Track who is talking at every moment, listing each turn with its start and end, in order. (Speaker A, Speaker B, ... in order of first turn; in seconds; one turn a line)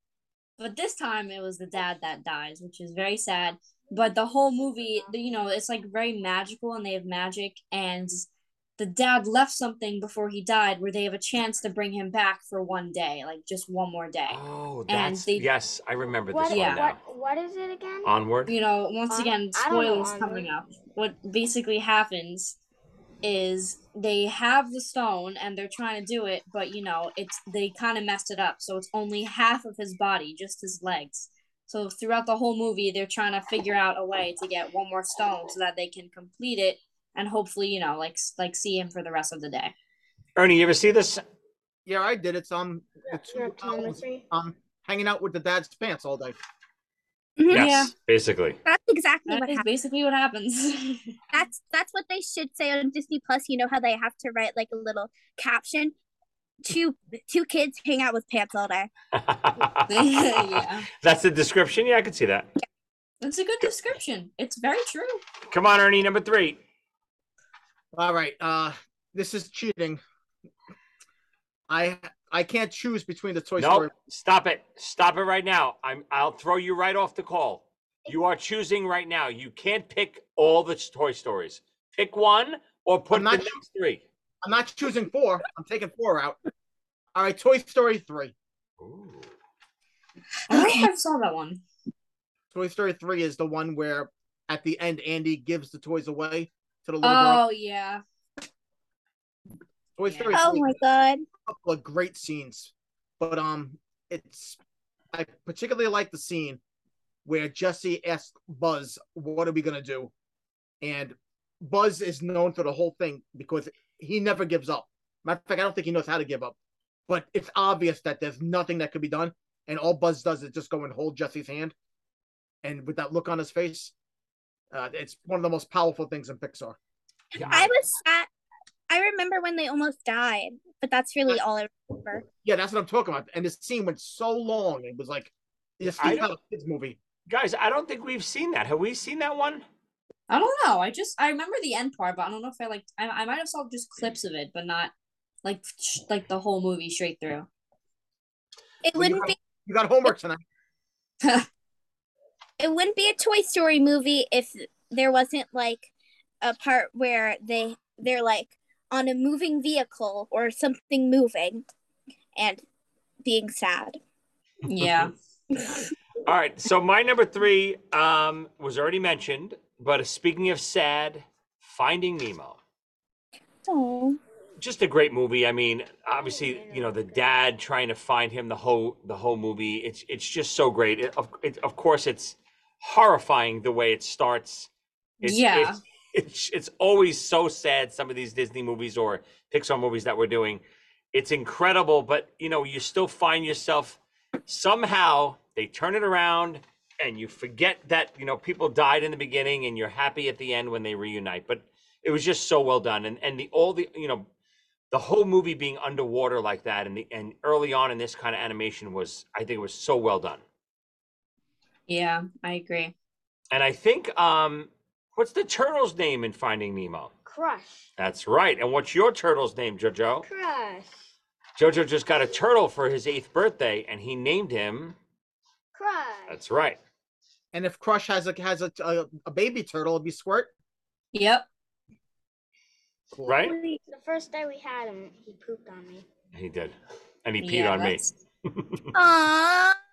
Speaker A: 0.6-8.3
Speaker B: 3.9-5.1
Speaker A: 8.8-15.5
Speaker C: 14.3-17.0
Speaker B: 16.3-18.1
Speaker A: 16.5-16.8
Speaker C: 18.1-18.5
Speaker A: 18.5-22.6
Speaker B: 19.1-20.5
Speaker A: 23.2-39.7
Speaker C: 40.4-41.2
Speaker D: 41.9-46.4
Speaker B: 43.1-44.3
Speaker E: 47.4-47.7
Speaker A: 47.5-47.9
Speaker C: 47.5-48.6
Speaker E: 48.6-49.6
Speaker A: 49.3-51.1
Speaker E: 51.3-55.9
Speaker E: 56.6-58.9
Speaker C: 59.1-59.9
Speaker A: 59.9-60.9
Speaker C: 61.0-62.5
Speaker A: 63.2-65.2
Speaker C: 65.5-66.6
Speaker D: 67.9-70.0
Speaker D: 71.7-73.9
Speaker C: 73.6-84.0
Speaker D: 83.1-83.6
Speaker D: 84.4-86.4
Speaker D: 87.2-88.3
Speaker C: 88.8-89.3
Speaker A: 90.5-91.6
Speaker E: 90.5-90.9
Speaker D: 92.5-97.5
Speaker A: 97.0-98.0
Speaker D: 100.0-100.8
Speaker A: 100.0-100.4
Speaker E: 100.3-101.2
Speaker D: 101.5-104.6
Speaker D: 105.1-106.6
Speaker D: 107.2-110.1
Speaker D: 110.8-116.5
Speaker D: 117.1-121.7
Speaker D: 122.6-123.9
Speaker D: 124.7-126.8
Speaker C: 127.3-127.7
Speaker E: 127.4-128.3
Speaker E: 128.9-132.2
Speaker D: 132.4-137.0
Speaker C: 135.9-136.3
Speaker C: 137.3-139.7
Speaker A: 140.3-144.9
Speaker A: 145.4-147.5
Speaker E: 148.8-149.4
Speaker D: 148.9-150.4
Speaker E: 152.6-155.9
Speaker E: 156.4-161.7
Speaker E: 162.4-162.6
Speaker E: 163.2-164.0
Speaker A: 164.7-165.1
Speaker C: 164.8-165.1
Speaker E: 165.6-165.8
Speaker C: 166.3-172.6
Speaker E: 173.7-174.2
Speaker C: 174.6-184.7
Speaker B: 176.1-177.4
Speaker C: 185.2-190.6
Speaker A: 185.2-185.8
Speaker C: 191.1-204.3
Speaker C: 204.9-210.4
Speaker A: 211.9-212.9
Speaker C: 213.5-217.1
Speaker B: 217.2-217.9
Speaker C: 218.0-220.2
Speaker B: 220.2-221.1
Speaker C: 221.6-225.0
Speaker B: 225.7-226.4
Speaker C: 226.3-226.8
Speaker D: 227.5-230.5
Speaker A: 231.1-231.4
Speaker D: 233.1-233.5
Speaker C: 233.3-233.6
Speaker E: 233.4-233.8
Speaker B: 233.9-236.1
Speaker C: 236.3-238.8
Speaker A: 237.4-238.1
Speaker E: 238.9-239.8